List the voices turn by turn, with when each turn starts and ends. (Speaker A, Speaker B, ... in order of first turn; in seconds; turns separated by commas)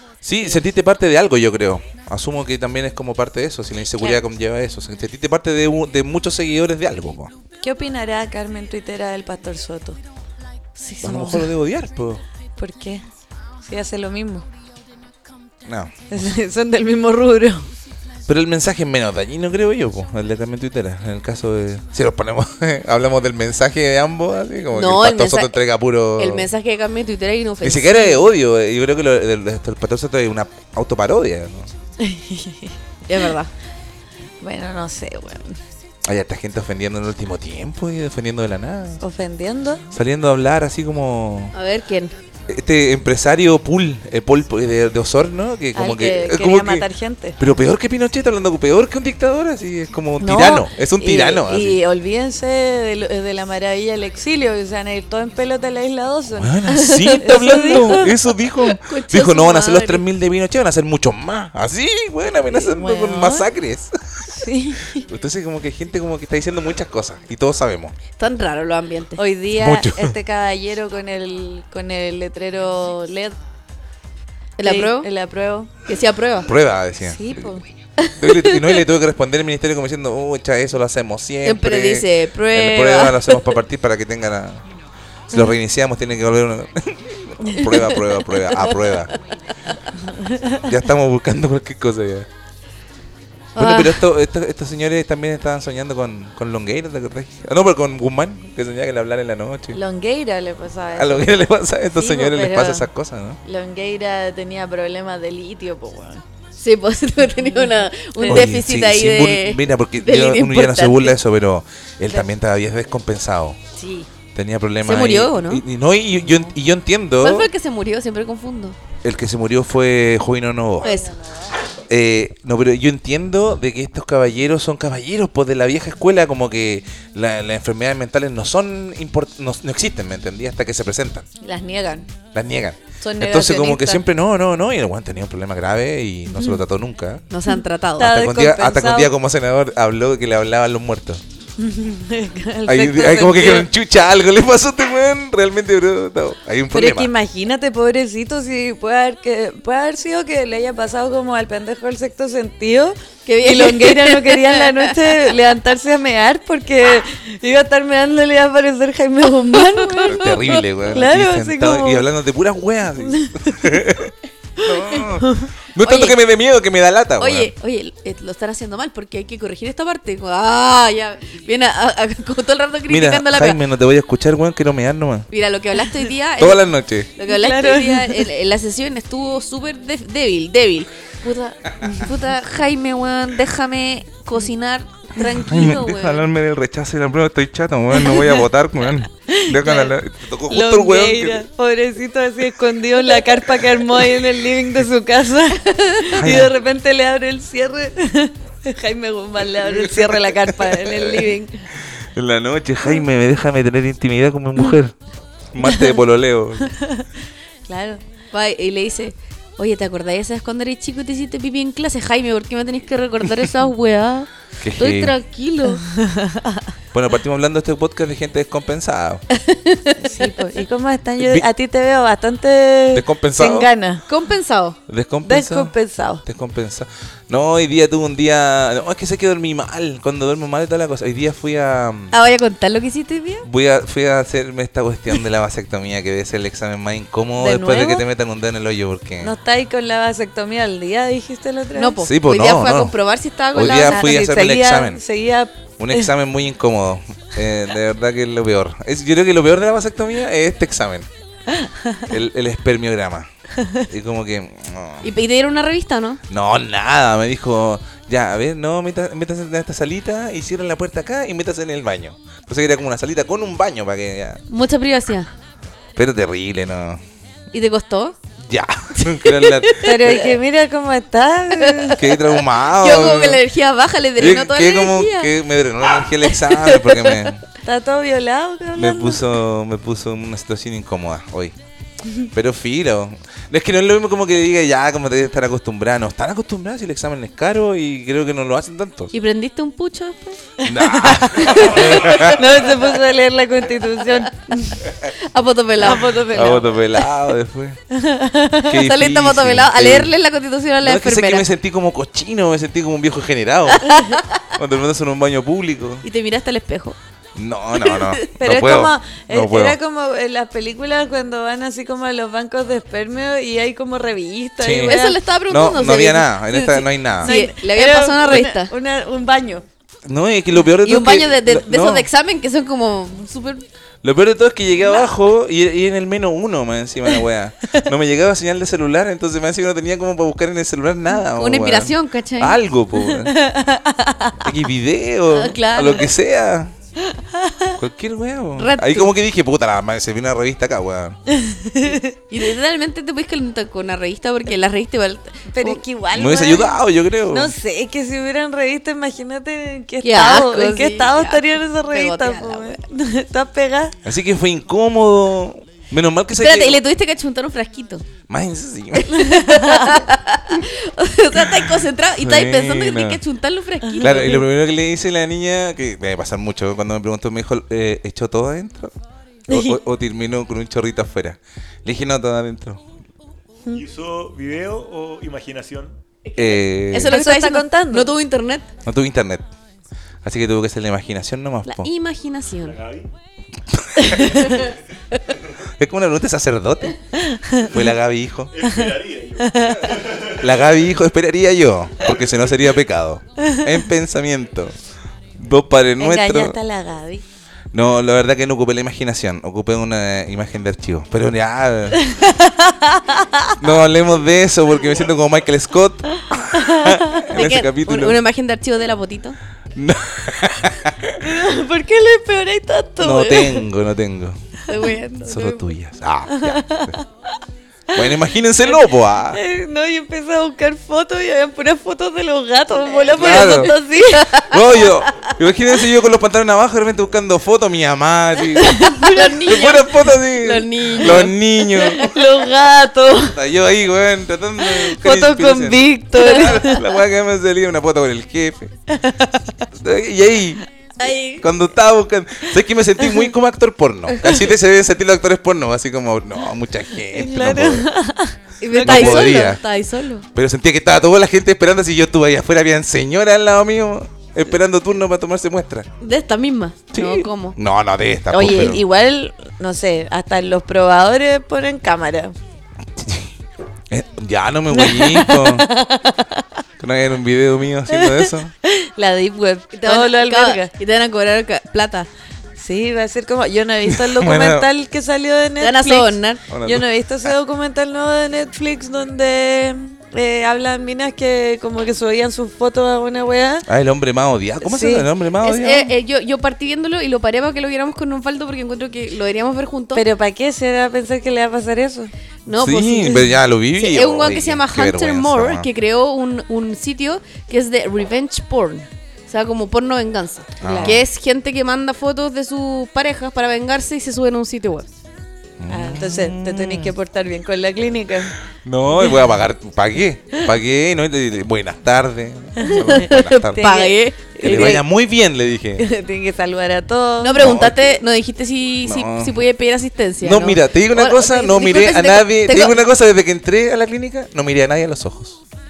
Speaker A: 0.2-7.3, Speaker B: 7.6-10.0, Speaker C: 10.8-11.4, Speaker A: 11.0-12.2, Speaker B: 11.1-11.4, Speaker B: 12.6-13.0, Speaker B: 13.6-14.4, Speaker A: 15.6-15.9, Speaker B: 16.1-17.7, Speaker A: 18.2-26.5, Speaker C: 24.7-25.6, Speaker C: 26.2-28.3, Speaker A: 27.6-31.7, Speaker B: 32.0-32.7, Speaker C: 33.1-33.5, Speaker B: 34.4-35.6, Speaker A: 36.0-39.0, Speaker B: 39.0-39.9, Speaker A: 39.9-41.5, Speaker C: 41.5-42.1, Speaker A: 42.5-46.9, Speaker B: 45.7-47.4, Speaker A: 47.4-51.8, Speaker B: 50.2-56.6, Speaker A: 56.4-64.3, Speaker C: 56.7-60.0, Speaker B: 57.2-58.1, Speaker B: 62.5-63.5, Speaker B: 64.3-65.0, Speaker A: 65.0-68.0, Speaker C: 68.2-69.2, Speaker B: 69.2-73.4, Speaker A: 69.5-70.2, Speaker C: 74.6-75.1, Speaker B: 74.6-75.7, Speaker C: 75.8-76.5, Speaker A: 76.5-77.5, Speaker B: 77.0-77.6, Speaker C: 78.0-78.8, Speaker A: 78.2-84.6, Speaker C: 81.4-83.5, Speaker A: 85.3-89.1, Speaker B: 87.4-87.7, Speaker B: 90.0-90.6, Speaker A: 90.6-92.3, Speaker C: 93.5-94.0, Speaker A: 93.5-99.8, Speaker B: 99.7-102.9, Speaker A: 101.0-103.4, Speaker B: 103.4-106.2, Speaker C: 106.6-111.2, Speaker B: 107.4-108.5, Speaker A: 108.3-113.6, Speaker B: 113.8-114.1, Speaker A: 114.3-117.5, Speaker C: 114.8-115.6, Speaker C: 117.2-118.8, Speaker A: 119.0-120.9, Speaker C: 120.8-121.1, Speaker B: 120.8-121.5, Speaker A: 121.9-131.2, Speaker B: 131.4-132.1, Speaker A: 132.3-137.2, Speaker B: 133.0-134.0, Speaker C: 137.3-138.2, Speaker B: 138.0-139.1, Speaker A: 138.1-141.2, Speaker B: 141.6-143.7, Speaker A: 142.7-147.1, Speaker B: 146.7-162.1, Speaker C: 153.2-155.0, Speaker C: 159.7-160.3, Speaker A: 160.0-167.5, Speaker B: 163.0-163.8, Speaker B: 165.2-165.5, Speaker C: 165.8-166.2, Speaker C: 167.2-173.6, Speaker A: 172.9-175.3, Speaker C: 175.3-176.6, Speaker A: 176.4-177.1, Speaker C: 177.2-186.2, Speaker B: 177.3-178.3, Speaker A: 185.3-191.4, Speaker B: 188.0-188.4, Speaker B: 189.3-189.9, Speaker B: 190.5-201.5, Speaker C: 195.6-196.1, Speaker A: 196.2-196.5, Speaker A: 199.6-201.3, Speaker C: 201.2-201.4, Speaker A: 202.0-204.9, Speaker A: 205.5-206.7, Speaker B: 205.6-206.0, Speaker B: 206.6-207.1, Speaker B: 207.7-208.0, Speaker C: 208.3-215.8, Speaker A: 214.6-215.1, Speaker B: 215.8-216.7, Speaker A: 216.9-219.2, Speaker C: 219.4-220.3, Speaker B: 220.0-224.0, Speaker A: 221.2-221.4, Speaker A: 222.9-223.7, Speaker C: 224.1-224.8, Speaker A: 224.9-225.7, Speaker B: 225.2-226.2, Speaker A: 226.2-232.1, Speaker C: 232.1-233.4, Speaker A: 233.4-239.3, Speaker B: 237.4-238.0, Speaker B: 239.2-242.0, Speaker C: 241.7-244.0, Speaker A: 242.0-242.9, Speaker A: 243.5-245.0, Speaker B: 243.8-246.1, Speaker A: 245.8-251.1, Speaker B: 251.5-252.1, Speaker A: 252.1-253.3, Speaker A: 253.8-255.1, Speaker C: 255.0-256.2, Speaker A: 256.3-264.4, Speaker C: 264.5-265.3, Speaker A: 265.9-267.0, Speaker C: 267.5-268.2, Speaker A: 268.4-270.1, Speaker C: 268.9-270.1, Speaker B: 269.8-272.0, Speaker C: 271.6-275.3, Speaker A: 271.9-273.4, Speaker A: 274.2-277.4, Speaker C: 276.0-277.3, Speaker B: 277.6-279.3, Speaker A: 278.7-281.5, Speaker A: 282.3-289.1, Speaker C: 289.1-290.4, Speaker B: 290.6-294.9, Speaker A: 290.6-292.6, Speaker C: 291.3-292.3, Speaker C: 295.3-296.6, Speaker B: 295.8-296.6, Speaker A: 296.3-297.8, Speaker B: 297.9-298.7, Speaker A: 298.6-300.1, Speaker C: 298.7-301.4, Speaker A: 300.8-303.9, Speaker C: 303.7-304.4, Speaker A: 304.5-306.0, Speaker C: 306.0-307.0, Speaker A: 307.4-309.8, Speaker C: 307.8-308.2, Speaker B: 308.4-315.2, Speaker A: 314.6-317.3, Speaker C: 314.8-318.7, Speaker B: 317.2-319.6, Speaker A: 320.0-322.1, Speaker C: 320.8-323.6, Speaker A: 324.0-333.4, Speaker C: 331.3-332.6, Speaker B: 333.1-334.5, Speaker A: 334.4-336.7, Speaker C: 335.3-336.1, Speaker B: 337.1-337.8, Speaker A: 337.8-341.2, Speaker C: 338.6-339.1, Speaker B: 341.3-342.1, Speaker C: 342.3-345.8, Speaker B: 345.5-354.0, Speaker A: 346.1-347.5, Speaker C: 350.0-352.8, Speaker A: 354.0-356.8, Speaker C: 356.4-358.0, Speaker A: 358.3-359.2, Speaker C: 359.0-364.4, Speaker B: 359.2-360.0, Speaker A: 361.4-363.2, Speaker A: 364.0-368.9, Speaker B: 369.5-369.8, Speaker A: 369.5-372.8, Speaker D: 373.7-376.0, Speaker C: 376.2-378.7, Speaker A: 376.4-377.2, Speaker B: 377.1-378.1, Speaker A: 378.8-379.5, Speaker A: 380.2-381.9, Speaker C: 381.7-382.8, Speaker D: 382.6-383.1, Speaker A: 383.7-384.4, Speaker C: 384.2-385.2, Speaker A: 385.8-388.5, Speaker B: 387.2-387.7, Speaker D: 388.5-390.7, Speaker B: 388.6-390.0, Speaker A: 390.4-394.8, Speaker B: 393.4-393.7, Speaker A: 395.4-396.6, Speaker B: 396.0-397.2, Speaker A: 397.7-402.1, Speaker B: 402.0-403.6, Speaker A: 403.6-408.2, Speaker B: 406.5-407.3, Speaker C: 407.3-409.4, Speaker A: 409.8-411.3, Speaker B: 411.2-413.6, Speaker A: 413.0-414.4, Speaker C: 414.7-415.7, Speaker A: 415.2-417.0, Speaker B: 416.3-417.0, Speaker A: 417.9-419.4, Speaker B: 418.7-424.8, Speaker C: 422.9-424.6, Speaker A: 423.1-423.7, Speaker A: 424.4-432.2, Speaker B: 428.5-429.9, Speaker C: 429.0-432.1, Speaker B: 431.1-433.4, Speaker A: 433.2-438.7, Speaker B: 434.6-436.8, Speaker B: 438.9-439.5, Speaker A: 439.7-440.6, Speaker C: 441.0-441.5, Speaker A: 441.4-447.9, Speaker B: 447.1-449.5, Speaker C: 448.6-450.2, Speaker A: 448.8-449.6, Speaker A: 450.3-455.9, Speaker C: 456.0-457.6, Speaker A: 456.9-458.8, Speaker B: 458.3-462.3, Speaker A: 463.0-463.3, Speaker A: 463.9-465.7, Speaker B: 464.7-466.4, Speaker A: 466.8-468.5, Speaker B: 467.9-470.7, Speaker C: 469.8-472.1, Speaker B: 472.6-483.6, Speaker A: 473.9-474.7, Speaker C: 475.6-476.4, Speaker A: 476.5-477.3, Speaker A: 483.7-485.9, Speaker B: 484.6-485.1, Speaker C: 485.4-490.0, Speaker B: 489.9-492.1, Speaker C: 492.4-504.9, Speaker A: 492.5-495.7, Speaker A: 500.6-501.0, Speaker B: 500.6-501.0, Speaker A: 505.6-506.9, Speaker B: 505.7-508.4, Speaker A: 508.6-513.6, Speaker B: 512.6-514.8, Speaker C: 512.6-514.8, Speaker A: 514.4-515.9, Speaker B: 515.8-517.6, Speaker C: 517.2-522.8, Speaker A: 517.4-517.8, Speaker A: 518.8-519.4, Speaker A: 520.2-525.4